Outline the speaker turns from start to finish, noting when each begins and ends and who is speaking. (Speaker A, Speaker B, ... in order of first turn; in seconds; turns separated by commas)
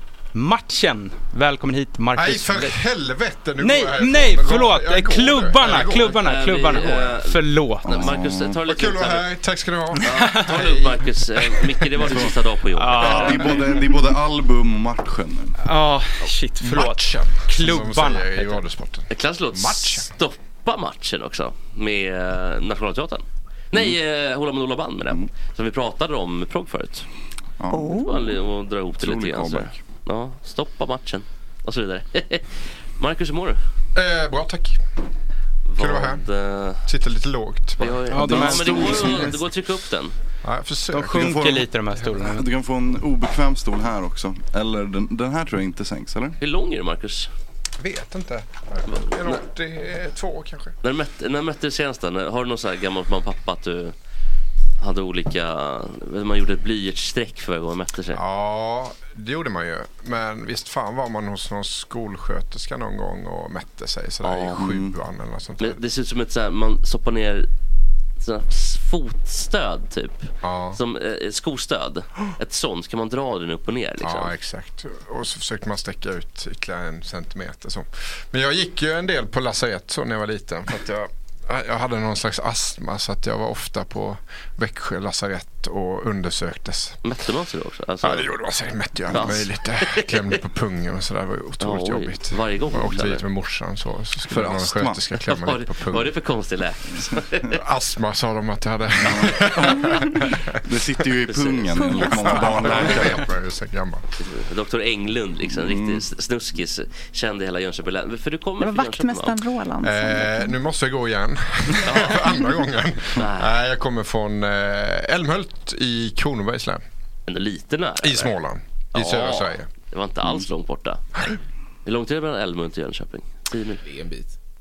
Speaker A: 0.3-2.8, Speaker B: 2.1-6.2, Speaker A: 3.6-8.1, Speaker C: 6.2-9.3, Speaker D: 7.8-8.6, Speaker B: 8.6-11.9, Speaker C: 10.0-13.4, Speaker A: 10.0-10.5, Speaker D: 12.0-12.4, Speaker A: 12.7-14.2, Speaker D: 13.0-15.6, Speaker A: 15.6-18.6, Speaker B: 16.6-20.1, Speaker C: 19.1-27.1, Speaker D: 27.6-28.1, Speaker E: 27.7-28.3, Speaker C: 27.9-33.6, Speaker D: 29.0-29.8, Speaker B: 33.9-34.8, Speaker C: 35.6-36.9, Speaker B: 35.8-36.2, Speaker B: 36.9-38.0, Speaker C: 37.8-40.1, Speaker A: 38.1-39.3, Speaker D: 38.1-39.4, Speaker B: 40.4-41.1, Speaker D: 40.9-46.4, Speaker A: 40.9-42.5, Speaker C: 46.4-47.3, Speaker B: 47.8-50.7, Speaker C: 48.9-49.4, Speaker C: 50.8-53.9, Speaker C: 54.8-58.2, Speaker B: 58.1-65.8, Speaker C: 64.2-64.6, Speaker D: 64.5-65.0, Speaker C: 65.6-67.5, Speaker C: 68.2-74.3, Speaker B: 70.4-70.8, Speaker B: 74.0-87.0, Speaker C: 87.0-88.3, Speaker B: 88.0-96.1, Speaker C: 89.1-90.4, Speaker C: 91.6-93.2, Speaker D: 94.3-95.2, Speaker C: 95.2-97.6, Speaker B: 97.5-100.6, Speaker D: 99.0-103.3, Speaker C: 101.3-101.7, Speaker E: 101.7-103.0, Speaker B: 102.0-104.0, Speaker C: 102.7-103.1, Speaker C: 104.2-109.4, Speaker D: 105.5-106.0, Speaker E: 108.6-110.6, Speaker B: 109.8-116.8, Speaker C: 111.8-112.2, Speaker C: 113.2-113.5, Speaker C: 117.3-118.3, Speaker B: 118.0-119.7, Speaker C: 118.9-121.0, Speaker C: 121.8-123.8